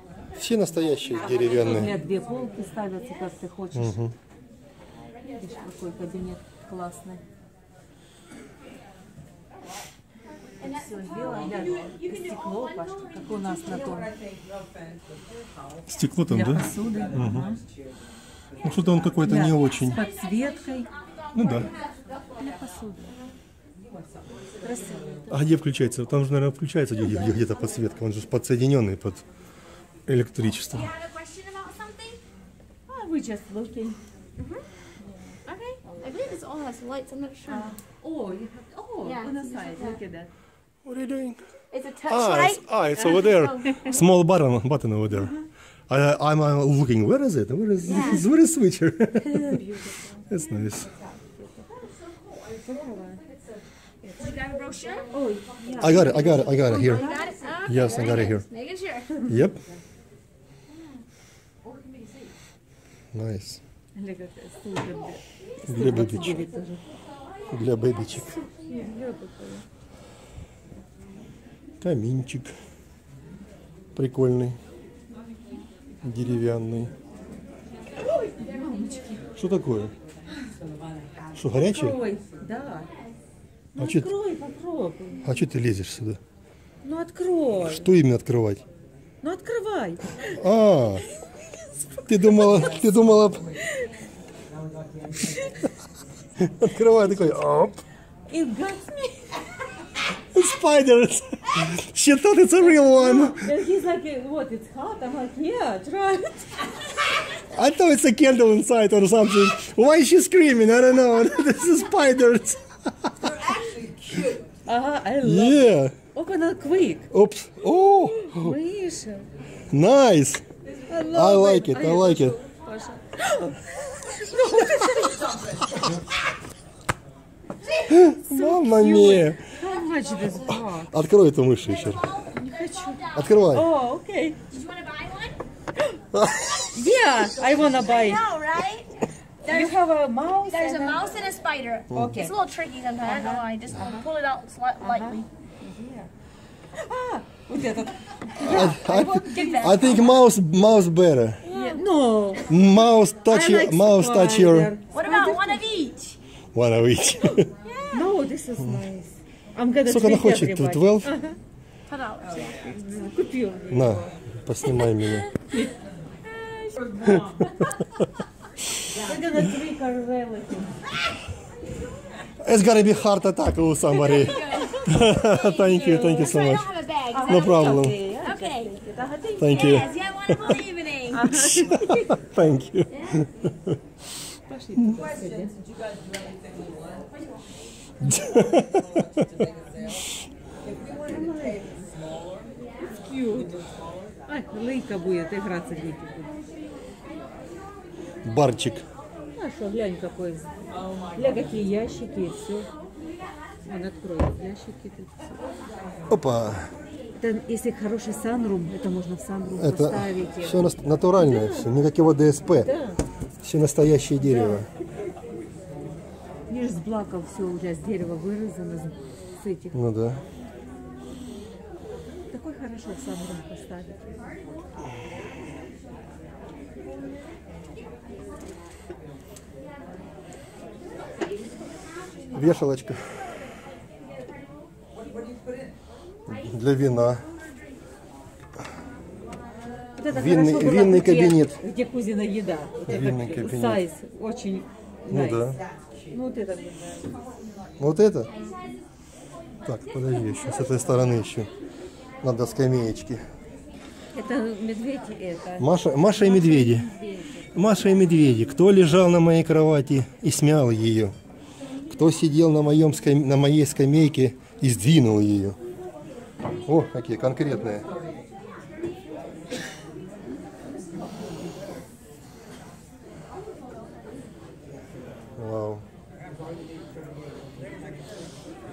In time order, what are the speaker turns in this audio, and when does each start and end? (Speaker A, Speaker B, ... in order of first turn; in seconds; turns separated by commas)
Speaker A: 0.4-1.9, Speaker B: 1.1-1.6, Speaker C: 1.2-2.0, Speaker D: 1.4-4.0, Speaker A: 3.7-4.1, Speaker B: 5.1-6.0, Speaker D: 5.2-7.2, Speaker B: 10.6-14.0, Speaker D: 10.6-14.1, Speaker C: 11.4-11.9, Speaker C: 13.7-15.4, Speaker A: 15.9-17.4, Speaker D: 16.2-17.6, Speaker C: 16.9-17.5, Speaker C: 18.6-19.4, Speaker A: 18.6-20.1, Speaker D: 19.2-20.9, Speaker B: 19.6-23.3, Speaker A: 21.3-21.7, Speaker C: 21.4-21.6, Speaker D: 22.3-23.1, Speaker D: 24.6-25.4, Speaker C: 24.7-25.2, Speaker A: 25.3-29.2, Speaker A: 30.1-30.9, Speaker B: 30.7-32.2, Speaker D: 32.9-34.0, Speaker B: 34.4-34.6, Speaker B: 35.5-37.7, Speaker D: 37.5-40.3, Speaker B: 39.0-40.0, Speaker A: 40.8-41.4, Speaker B: 41.7-44.0, Speaker A: 42.0-45.4, Speaker D: 45.1-45.4, Speaker A: 45.9-49.6, Speaker B: 47.9-48.2, Speaker D: 49.2-50.1, Speaker A: 50.3-50.9, Speaker D: 51.2-51.7, Speaker D: 52.6-53.2, Speaker B: 54.1-59.3, Speaker D: 55.0-57.5, Speaker A: 55.8-57.0, Speaker C: 56.2-58.3, Speaker A: 57.6-58.5, Speaker A: 59.3-59.6, Speaker D: 59.3-59.8, Speaker A: 63.1-63.6, Speaker D: 63.9-66.8, Speaker A: 65.7-66.5, Speaker A: 67.5-68.4, Speaker B: 67.8-68.4, Speaker D: 68.7-69.6, Speaker A: 71.8-72.5, Speaker A: 73.9-74.6, Speaker A: 76.0-76.9, Speaker D: 78.0-79.2, Speaker A: 79.3-79.9, Speaker A: 81.3-82.0, Speaker D: 81.5-82.9, Speaker D: 83.7-85.3, Speaker A: 83.8-84.1, Speaker A: 85.2-86.2, Speaker D: 86.8-87.9, Speaker A: 87.6-88.6, Speaker D: 89.2-90.3, Speaker A: 90.2-91.0, Speaker D: 91.8-92.7, Speaker A: 92.0-93.5, Speaker D: 93.6-93.9, Speaker C: 94.6-95.5, Speaker A: 96.4-97.8, Speaker D: 98.3-99.4, Speaker A: 100.3-103.5, Speaker D: 102.6-106.7, Speaker A: 107.5-113.3, Speaker C: 113.3-114.4, Speaker D: 114.6-117.1, Speaker A: 115.2-115.9, Speaker A: 117.1-118.6, Speaker D: 117.9-119.3, Speaker A: 119.7-120.4, Speaker D: 120.8-125.6, Speaker A: 121.1-122.4, Speaker A: 127.9-129.4, Speaker D: 128.0-130.9, Speaker A: 130.8-132.1, Speaker B: 131.6-133.3, Speaker D: 132.3-134.4, Speaker A: 133.1-133.7, Speaker B: 134.5-135.4, Speaker A: 136.1-136.6, Speaker D: 136.7-138.3, Speaker B: 137.0-139.7, Speaker D: 139.4-141.2, Speaker B: 140.5-145.2, Speaker D: 141.9-142.3, Speaker D: 143.0-144.1, Speaker D: 144.8-146.1, Speaker D: 146.7-149.9, Speaker A: 148.4-151.4, Speaker B: 148.9-150.2, Speaker B: 151.4-151.8, Speaker D: 151.5-155.6, Speaker A: 152.5-154.7, Speaker B: 154.9-156.2, Speaker A: 156.5-157.5, Speaker B: 157.6-158.0, Speaker D: 157.9-161.4, Speaker A: 158.6-158.8, Speaker A: 159.8-161.1, Speaker B: 161.9-162.7, Speaker D: 162.6-164.1, Speaker A: 163.7-165.3, Speaker D: 165.5-165.8, Speaker D: 166.4-167.2, Speaker D: 168.9-170.9, Speaker A: 172.4-176.7, Speaker B: 173.9-178.7, Speaker D: 175.6-176.3, Speaker D: 177.1-179.9, Speaker A: 177.2-178.0, Speaker A: 179.4-180.6, Speaker B: 179.4-181.3, Speaker D: 181.1-182.2, Speaker A: 181.4-183.8, Speaker D: 184.4-185.5, Speaker C: 185.0-187.1, Speaker A: 188.0-189.2, Speaker C: 188.6-190.0, Speaker C: 190.6-192.4, Speaker D: 191.0-191.6, Speaker D: 192.9-193.5, Speaker C: 193.3-193.9, Speaker D: 194.3-196.3, Speaker A: 198.2-198.8, Speaker D: 199.3-200.5, Speaker D: 201.1-202.7, Speaker D: 203.6-205.4, Speaker A: 206.1-206.7, Speaker D: 207.2-211.7, Speaker A: 209.6-212.7, Speaker D: 212.6-213.0, Speaker A: 213.4-214.7, Speaker D: 214.2-214.7, Speaker D: 216.5-219.8, Speaker A: 219.7-220.2, Speaker D: 222.3-224.2, Speaker B: 232.2-232.4, Speaker A: 232.3-233.1, Speaker B: 234.2-234.5, Speaker A: 236.3-237.2, Speaker D: 239.9-245.6, Speaker A: 240.1-241.6, Speaker A: 242.9-243.8, Speaker A: 245.1-245.6, Speaker D: 246.1-247.2, Speaker A: 247.8-248.3, Speaker A: 249.6-251.5, Speaker A: 252.2-253.2, Speaker D: 254.1-257.5, Speaker A: 255.6-256.9, Speaker A: 257.5-261.1, Speaker A: 261.9-265.6, Speaker A: 266.6-267.9, Speaker A: 275.4-275.8